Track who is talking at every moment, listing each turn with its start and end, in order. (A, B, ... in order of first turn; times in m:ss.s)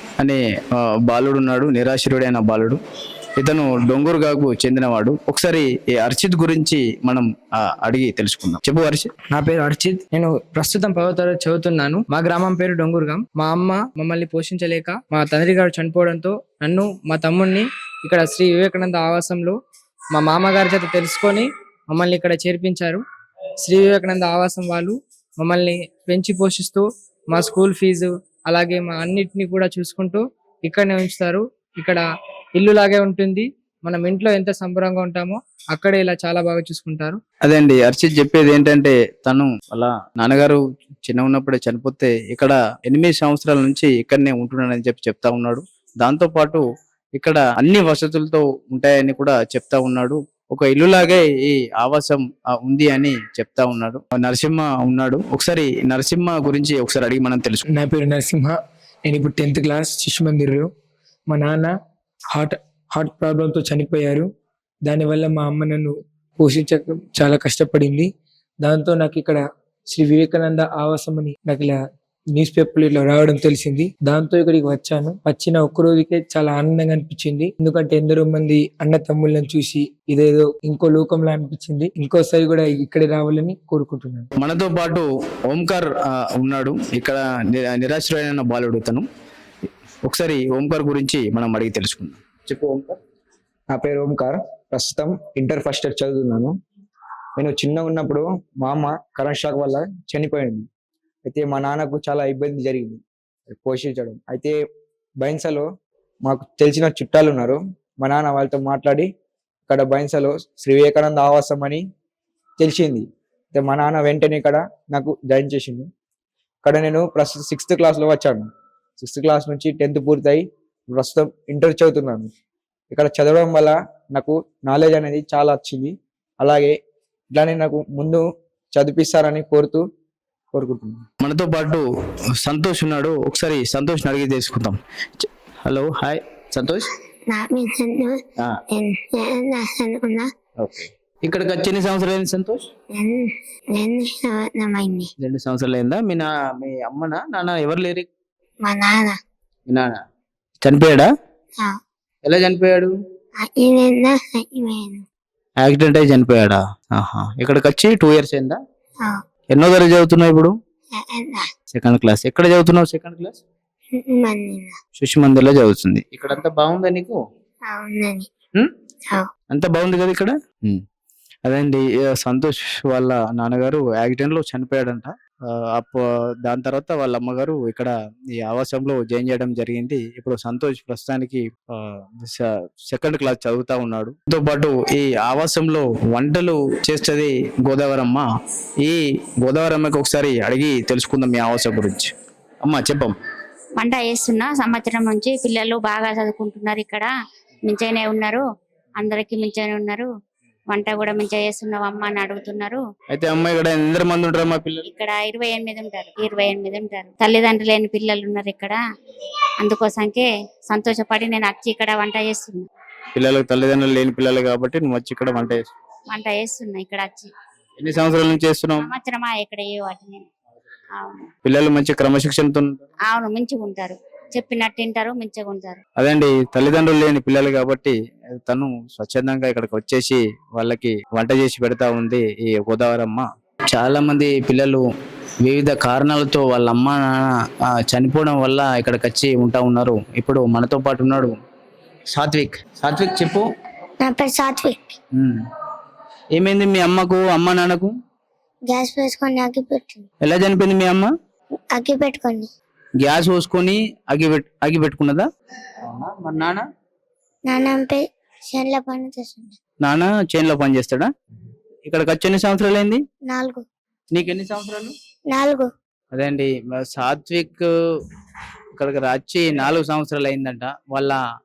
0:00.2-0:02.8 A
0:03.4-0:09.1 A
0:09.4-0:09.8 B
0:10.1-0:19.6 C
0:20.2-0:23.0 C
0:23.6-0:32.0 C
0:32.6-0:37.2 C
0:37.4-0:46.6 A
0:47.2-0:57.6 A
0:57.7-1:00.7 D
1:01.3-1:01.7 D
1:02.3-1:04.3 D
1:04.8-1:08.1 D
1:08.6-1:11.8 D
1:12.4-1:24.3 D
1:24.4-1:29.0 A
1:30.0-1:33.0 A
1:33.7-1:36.5 B
1:37.4-1:40.6 B
1:41.2-1:44.5 B
1:45.2-1:45.7 B
1:46.2-1:49.1 B
1:49.7-1:51.8 B
1:52.6-1:55.9 B
1:56.6-1:58.5 B
1:59.0-2:02.3 B
2:02.9-2:06.7 B
2:07.3-2:08.2 B
2:08.7-2:09.8 B
2:10.5-2:11.0 B
2:11.2-2:11.8 A
2:12.4-2:14.8 A
2:15.6-2:16.9 A
2:17.3-2:20.3 E
2:20.6-2:22.7 A
2:22.9-2:25.1 E
2:25.2-2:28.1 A
2:28.6-2:29.2 E
2:29.7-2:30.0 A
2:30.6-2:31.1 A
2:32.2-2:32.9 A
2:33.4-2:35.0 E
2:35.6-2:38.6 A
2:39.5-2:40.5 A
2:41.0-2:41.5 E
2:41.7-2:43.4 A
2:43.9-2:44.8 E
2:45.0-2:47.2 A
2:47.7-2:48.3 E
2:49.5-2:50.8 A
2:51.4-2:55.1 A
2:55.7-3:08.2 A
3:08.8-3:12.1 A
3:12.6-3:13.2 A
3:13.8-3:17.1 F
3:17.7-3:18.4 F
3:19.0-3:20.1 F
3:20.7-3:22.8 F
3:23.1-3:24.9 A
3:24.9-3:28.8 F
3:29.6-3:32.7 F
3:33.2-3:35.7 A
3:36.1-3:37.3 F
3:37.8-3:38.9 A
3:38.8-3:40.2 F
3:41.0-3:41.3 F
3:41.5-3:42.8 A
3:43.1-3:45.8 F
3:46.0-3:54.8 A
3:55.4-4:01.4 A
4:02.1-4:03.4 A
4:04.0-4:05.0 E
4:06.3-4:07.9 A
4:08.7-4:10.1 E
4:10.2-4:11.1 A
4:11.7-4:12.5 E
4:13.0-4:15.3 A
4:15.8-4:16.6 A
4:17.4-4:19.6 E
4:19.8-4:21.1 A
4:21.8-4:23.0 A
4:23.2-4:23.6 E
4:24.1-4:24.9 A
4:25.3-4:25.7 E
4:26.1-4:27.6 A
4:28.8-4:31.2 A